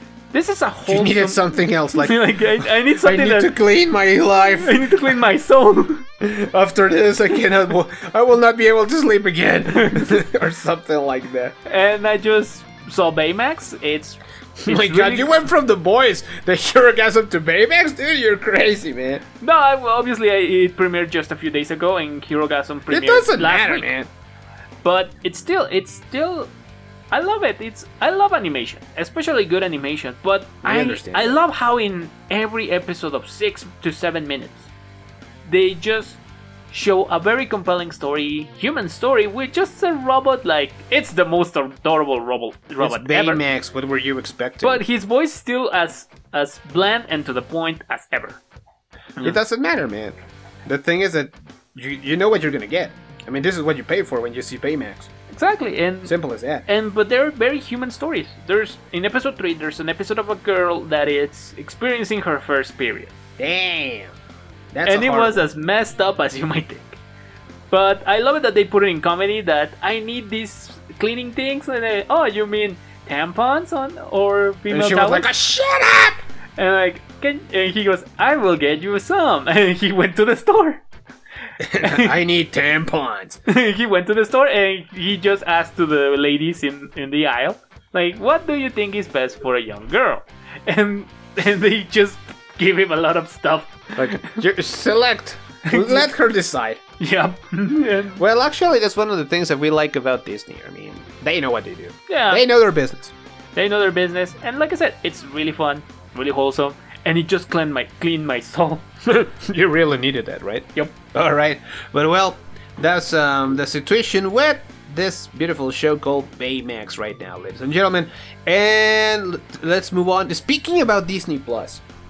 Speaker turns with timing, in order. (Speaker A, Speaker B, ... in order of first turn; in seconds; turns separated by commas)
Speaker A: 0.3-3.6, Speaker B: 0.9-4.9, Speaker A: 4.6-6.1, Speaker B: 6.2-11.6, Speaker A: 9.7-10.2, Speaker A: 11.7-15.4, Speaker B: 14.6-19.2, Speaker A: 19.4-23.9, Speaker B: 22.9-24.1, Speaker A: 24.8-26.5, Speaker A: 27.1-34.7, Speaker B: 30.6-31.4, Speaker A: 35.5-36.2, Speaker A: 36.7-43.4, Speaker B: 42.8-44.8, Speaker A: 44.6-48.4, Speaker B: 49.2-55.1, Speaker A: 55.3-56.1, Speaker B: 56.0-56.6, Speaker A: 56.7-63.1, Speaker B: 63.4-64.1, Speaker B: 64.7-65.5, Speaker A: 64.8-67.0, Speaker A: 67.7-75.3, Speaker B: 74.7-76.2, Speaker A: 76.6-80.8, Speaker B: 81.6-83.4, Speaker A: 81.8-82.2, Speaker A: 83.5-94.4, Speaker B: 94.0-96.8, Speaker A: 95.7-96.1, Speaker A: 97.0-98.2, Speaker B: 98.2-103.1, Speaker A: 102.1-102.5, Speaker A: 103.5-108.8, Speaker B: 109.0-121.8